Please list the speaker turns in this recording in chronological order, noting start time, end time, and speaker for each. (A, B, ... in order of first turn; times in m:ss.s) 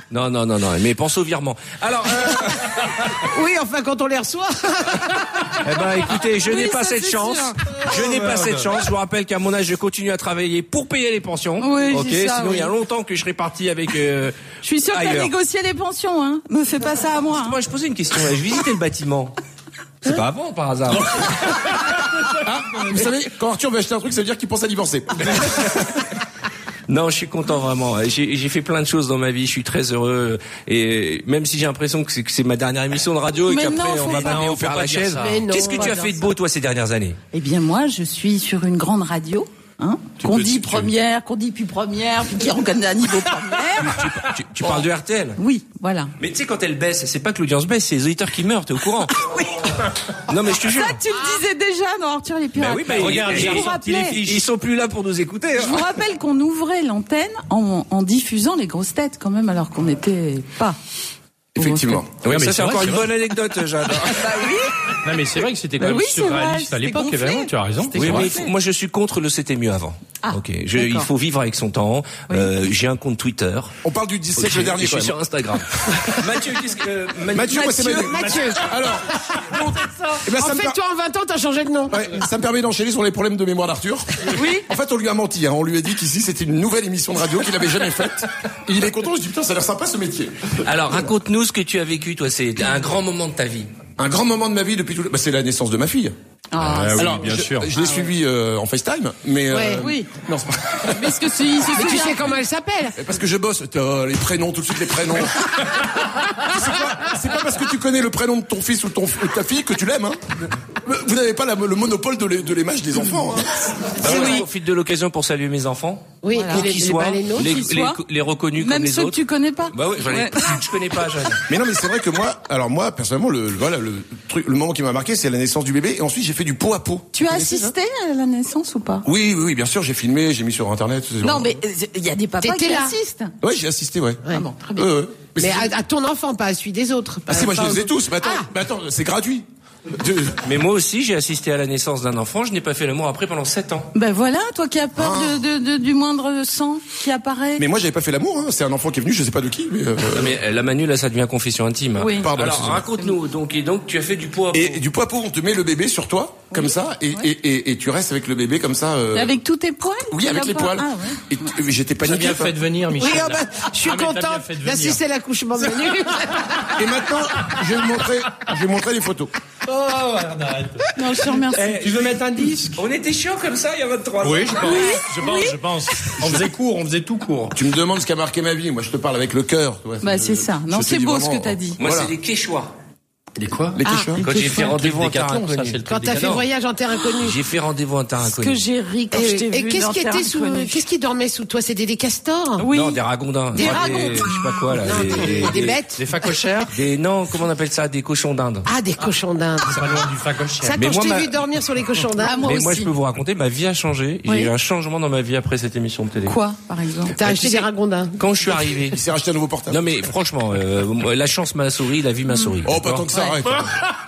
0:00.1-0:02.8 A
0:03.2-0:05.2 B
0:05.6-0:14.4 A
0:06.4-0:07.6 C
0:07.9-0:08.7 D
0:11.6-0:12.7 C
0:14.6-0:17.6 C
0:14.9-0:15.3 A
0:17.3-0:19.4 A
0:20.0-0:21.3 A
0:21.1-0:23.0 D
0:22.4-0:25.7 E
0:26.9-0:37.2 A
0:33.5-0:34.5 C
0:34.1-0:35.4 D
0:35.2-0:36.1 B
0:35.7-0:36.1 C
0:37.3-0:44.0 C
0:40.3-0:40.8 A
0:43.8-0:45.4 A
0:45.4-0:46.1 C
0:46.2-0:49.3 A
0:50.3-0:51.0 A
0:50.6-0:54.2 C
0:52.6-0:55.9 A
0:52.9-0:54.4 D
0:55.6-1:00.8 C
1:01.6-1:02.1 E
1:01.6-1:02.0 C
1:02.2-1:03.1 D
1:02.2-1:04.5 A
1:04.1-1:04.7 C
1:05.0-1:08.3 D
1:05.8-1:08.5 C
1:08.0-1:13.7 A
1:10.2-1:11.1 C
1:13.8-1:15.2 E
1:14.4-1:18.4 A
1:17.3-1:19.6 E
1:17.6-1:18.6 B
1:20.2-1:20.8 E
1:20.3-1:22.2 B
1:21.9-1:30.3 E
1:24.3-1:24.6 C
1:30.6-1:33.7 A
1:34.0-1:36.1 E
1:36.5-1:37.2 C
1:36.6-1:37.7 D
1:37.0-1:41.0 E
1:39.5-1:39.9 B
1:39.8-1:40.1 C
1:40.9-1:42.4 C
1:41.7-1:43.0 B
1:43.0-1:45.4 E
1:46.5-1:50.2 E
1:50.8-1:53.5 E
1:54.0-1:59.2 A
1:54.0-1:54.4 C
1:56.2-1:57.5 B
1:56.3-1:56.8 C
1:57.3-1:58.0 C
1:58.6-2:00.6 C
1:59.7-2:01.4 A
2:01.5-2:07.7 E
2:07.1-2:09.0 C
2:09.0-2:11.6 E
2:11.2-2:13.3 C
2:12.4-2:13.0 B
2:13.4-2:14.2 E
2:14.3-2:14.9 C
2:14.8-2:15.7 E
2:15.4-2:18.4 B
2:17.3-2:20.5 E
2:20.4-2:23.9 A
2:23.9-2:27.6 C
2:25.0-2:25.4 E
2:27.6-2:30.4 E
2:30.1-2:34.8 A
2:32.0-2:32.3 C
2:32.2-2:32.8 E
2:34.5-2:39.4 E
2:36.5-2:37.2 C
2:39.1-2:41.2 C
2:40.1-2:42.5 E
2:42.0-2:45.0 D
2:42.9-2:46.6 B
2:46.7-2:49.3 E
2:49.6-2:50.9 D
2:51.0-2:51.8 C
2:51.5-2:55.0 A
2:51.6-2:52.8 D
2:54.2-2:57.6 D
2:54.6-2:55.5 C
2:57.5-3:02.1 E
3:00.0-3:01.8 C
3:01.8-3:02.7 A
3:03.4-3:06.4 D
3:03.8-3:04.2 E
3:03.8-3:04.1 B
3:04.2-3:06.4 A
3:05.8-3:07.4 B
3:07.2-3:08.6 A
3:08.3-3:10.8 C
3:09.1-3:12.7 B
3:12.6-3:13.0 C
3:12.7-3:15.8 A
3:13.5-3:16.0 B
3:13.6-3:14.2 C
3:15.4-3:16.7 D
3:16.7-3:18.7 A
3:18.6-3:20.1 B
3:19.6-3:20.8 D
3:20.6-3:22.5 B
3:20.7-3:21.4 A
3:22.2-3:22.9 C
3:22.4-3:26.4 A
3:26.2-3:27.1 C
3:27.1-3:28.2 B
3:27.2-3:29.0 A
3:28.9-3:29.8 E
3:29.7-3:33.1 A
3:32.6-3:33.7 E